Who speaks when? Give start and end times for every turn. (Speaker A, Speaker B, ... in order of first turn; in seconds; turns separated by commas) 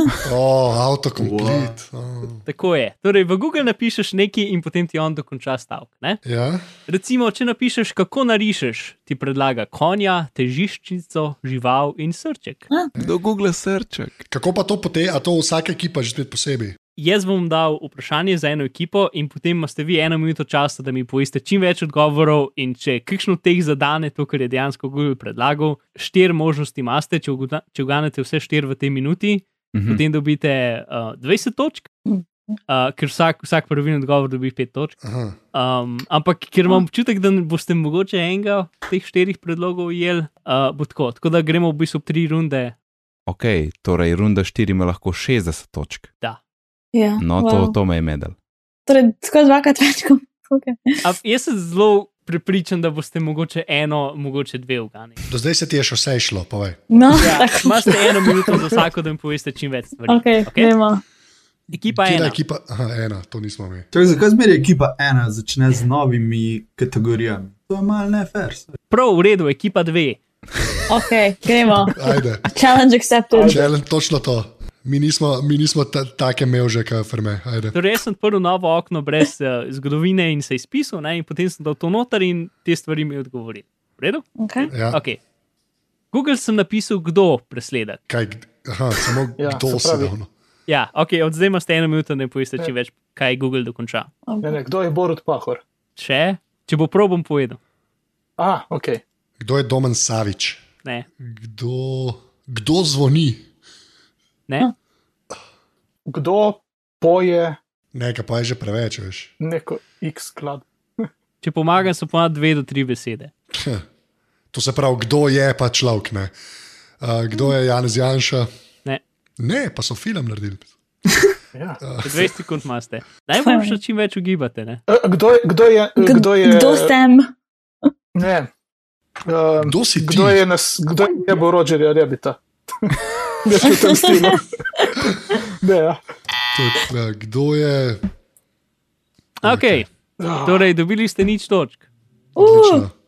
Speaker A: 0.2-2.4, Speaker B: 1.2-1.8, Speaker C: 2.5-6.2, Speaker A: 6.2-6.6, Speaker C: 6.9-12.7, Speaker D: 13.0-14.2, Speaker A: 14.3-16.8, Speaker C: 17.0-31.9, Speaker D: 29.7-30.0, Speaker C: 32.7-35.0, Speaker A: 35.0-35.4, Speaker C: 35.5-42.7, Speaker D: 43.3-46.1, Speaker E: 46.9-47.8, Speaker D: 47.2-48.3, Speaker E: 48.9-51.0, Speaker C: 51.0-55.2, Speaker A: 55.3-56.8, Speaker E: 56.9-58.1, Speaker C: 57.2-60.7, Speaker E: 60.1-61.0, Speaker C: 61.7-62.4, Speaker A: 61.9-63.9, Speaker B: 63.9-68.7, Speaker C: 68.9-70.2, Speaker E: 70.9-71.9, Speaker A: 71.9-72.4, Speaker E: 72.5-73.6, Speaker F: 73.3-73.7, Speaker A: 73.4-77.8, Speaker C: 77.7-84.2, Speaker E: 84.4-84.7, Speaker A: 84.7-85.0, Speaker C: 84.8-85.2, Speaker C: 86.1-88.0, Speaker A: 88.1-90.3, Speaker F: 89.4-90.1, Speaker C: 90.7-94.1, Speaker E: 94.3-94.5, Speaker F: 94.4-95.6, Speaker C: 96.0-97.6, Speaker F: 98.4-99.0, Speaker A: 99.4-100.6, Speaker A: 101.2-103.4, Speaker F: 106.1-107.6, Speaker A: 107.9-109.3, Speaker F: 109.4-110.6, Speaker C: 111.4-113.3, Speaker A: 113.5-113.8, Speaker A: 114.5-116.3, Speaker A: 117.0-118.5, Speaker A: 119.4-120.7, Speaker F: 121.5-121.8, Speaker A: 121.8-122.3, Speaker C: 122.0-124.8, Speaker E: 123.4-123.8, Speaker F: 124.9-127.0, Speaker E: 126.0-127.3, Speaker F: 128.2-128.5, Speaker F: 129.2-134.4, Speaker A: 129.6-130.4, Speaker E: 133.6-134.3, Speaker F: 135.6-136.0, Speaker A: 136.5-138.0, Speaker C: 139.4-139.8, Speaker A: 139.4-139.8, Speaker F: 140.2-140.7, Speaker C: 140.4-141.8, Speaker A: 142.3-142.9, Speaker E: 142.4-142.8